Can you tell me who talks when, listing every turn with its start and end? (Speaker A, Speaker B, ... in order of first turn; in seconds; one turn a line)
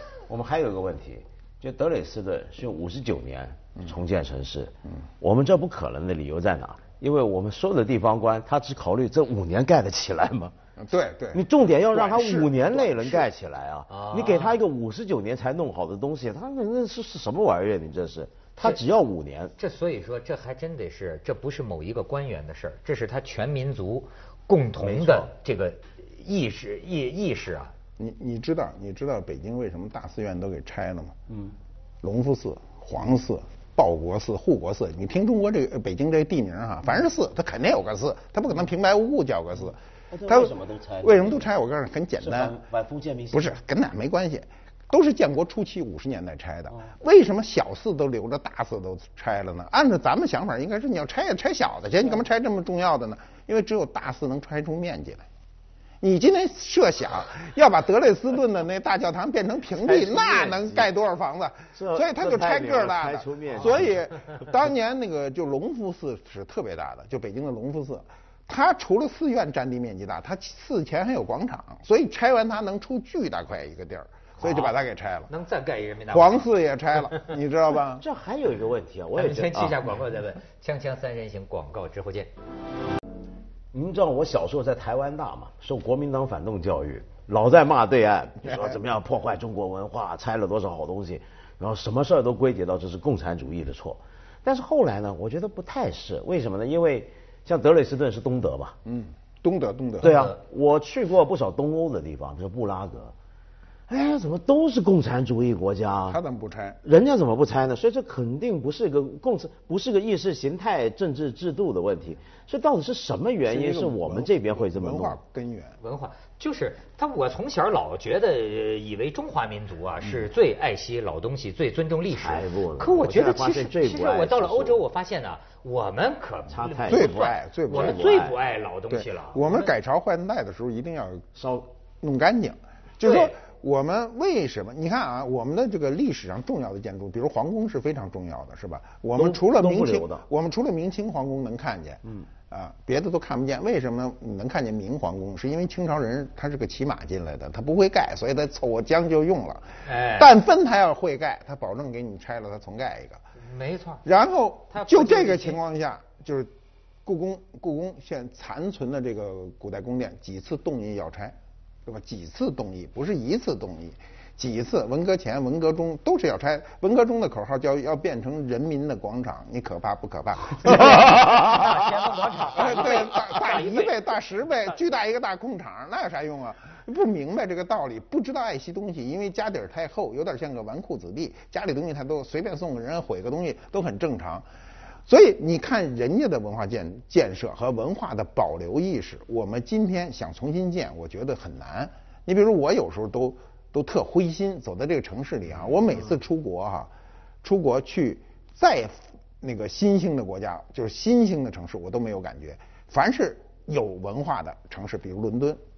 Speaker A: 0.3-10.5
Speaker B: 10.8-13.3
Speaker A: 11.3-19.6
Speaker C: 13.9-14.6
Speaker C: 19.6-27.7
Speaker B: 28.0-31.2
Speaker B: 32.0-42.6
Speaker A: 40.1-41.5
Speaker A: 42.2-43.6
Speaker B: 43.3-55.2
Speaker B: 56.0-75.3
Speaker A: 59.7-60.9
Speaker A: 61.7-64.0
Speaker C: 74.4-74.7
Speaker C: 75.3-76.4
Speaker B: 76.1-78.0
Speaker A: 78.0-80.0
Speaker C: 79.2-82.3
Speaker A: 83.7-98.8
Speaker B: 98.8-100.3
Speaker A: 100.0-103.1
Speaker A: 103.9-106.2
Speaker B: 106.1-106.8
Speaker A: 106.8-115.2
Speaker B: 113.5-115.8
Speaker C: 115.8-129.7
Speaker A: 122.1-124.8
Speaker A: 126.5-128.4
Speaker B: 126.9-128.1
Speaker B: 128.9-131.3
Speaker A: 131.3-131.7
Speaker B: 132.0-153.2
Speaker C: 133.0-133.3
Speaker A: 139.2-140.2
Speaker C: 149.8-150.3
Speaker C: 153.4-154.0
Speaker B: 154.0-156.5
Speaker C: 154.7-155.6
Speaker B: 157.1-184.5
Speaker C: 170.6-173.9
Speaker B: 185.1-196.9
Speaker B: 197.4-205.6